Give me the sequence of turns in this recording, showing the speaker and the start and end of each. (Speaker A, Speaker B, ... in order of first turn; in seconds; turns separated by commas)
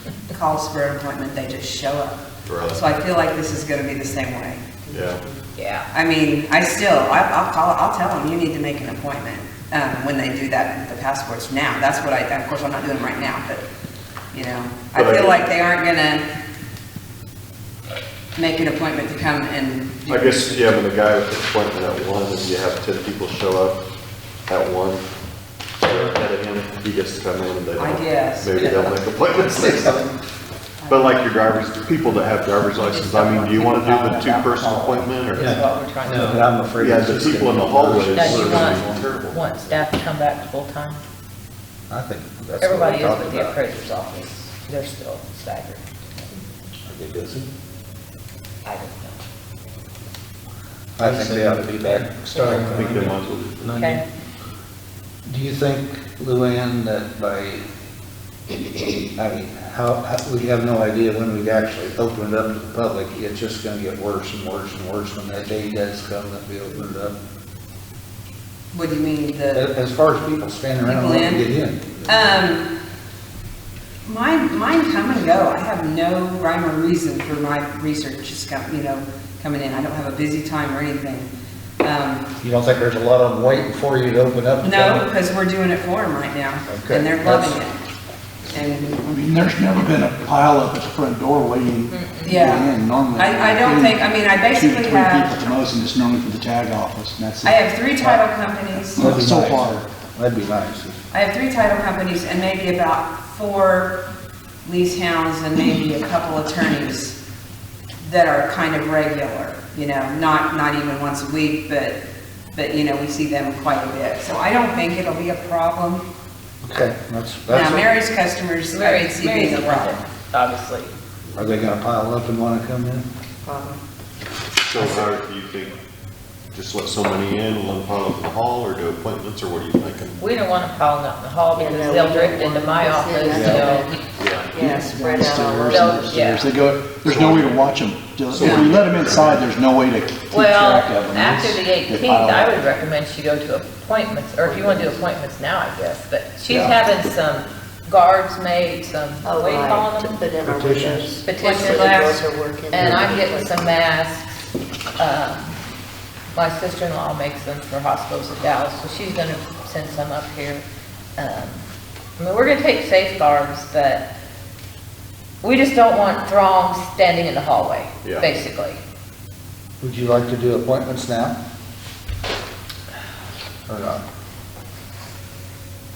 Speaker A: 0.3-5.3, Speaker B: 2.5-2.8, Speaker B: 4.9-5.2, Speaker C: 5.5-5.9, Speaker A: 5.9-13.6, Speaker A: 14.3-16.2, Speaker B: 14.9-15.4, Speaker A: 18.3-20.6, Speaker B: 20.1-23.8, Speaker B: 24.5-25.0, Speaker B: 25.8-30.1, Speaker A: 27.8-29.0, Speaker D: 29.5-30.0, Speaker A: 30.8-31.2, Speaker B: 30.9-35.6, Speaker C: 32.7-36.5, Speaker D: 35.4-39.0, Speaker B: 36.8-39.8, Speaker C: 38.1-41.0, Speaker D: 41.9-43.6, Speaker C: 42.6-46.4, Speaker D: 46.9-47.5, Speaker C: 48.6-49.2, Speaker D: 51.0-53.1, Speaker E: 51.0-54.0, Speaker B: 52.6-53.7, Speaker C: 53.7-54.0, Speaker D: 55.2-57.6, Speaker D: 59.0-67.2, Speaker A: 68.7-69.7, Speaker D: 69.5-72.4, Speaker A: 70.8-71.4, Speaker A: 72.0-72.7, Speaker A: 74.0-81.3, Speaker A: 81.8-82.3, Speaker D: 82.4-85.0, Speaker A: 84.6-87.8, Speaker D: 86.7-87.5, Speaker A: 88.5-89.0, Speaker F: 89.0-97.6, Speaker C: 91.9-92.4, Speaker A: 92.2-95.4, Speaker A: 97.4-99.2, Speaker D: 98.9-101.0, Speaker F: 99.0-99.8, Speaker A: 101.1-104.0, Speaker A: 104.6-107.2, Speaker A: 108.0-112.0, Speaker A: 112.5-116.0, Speaker D: 116.6-117.9, Speaker A: 117.5-120.0, Speaker C: 118.7-120.9, Speaker D: 121.3-123.0, Speaker E: 123.4-123.8, Speaker B: 124.7-125.8, Speaker B: 126.5-130.2, Speaker C: 130.2-134.0, Speaker E: 131.5-136.2, Speaker D: 133.3-133.7, Speaker B: 134.2-134.6, Speaker F: 134.6-142.6, Speaker C: 135.6-136.5, Speaker B: 137.1-137.6, Speaker B: 138.3-139.5, Speaker C: 140.3-150.2, Speaker E: 149.2-153.7, Speaker D: 150.4-151.1, Speaker C: 151.2-152.2, Speaker A: 151.6-152.2, Speaker C: 152.7-155.6, Speaker C: 156.3-160.6, Speaker C: 161.2-161.7, Speaker C: 162.2-164.1, Speaker C: 165.4-168.8, Speaker B: 168.0-168.3, Speaker D: 169.8-171.3, Speaker D: 173.7-174.0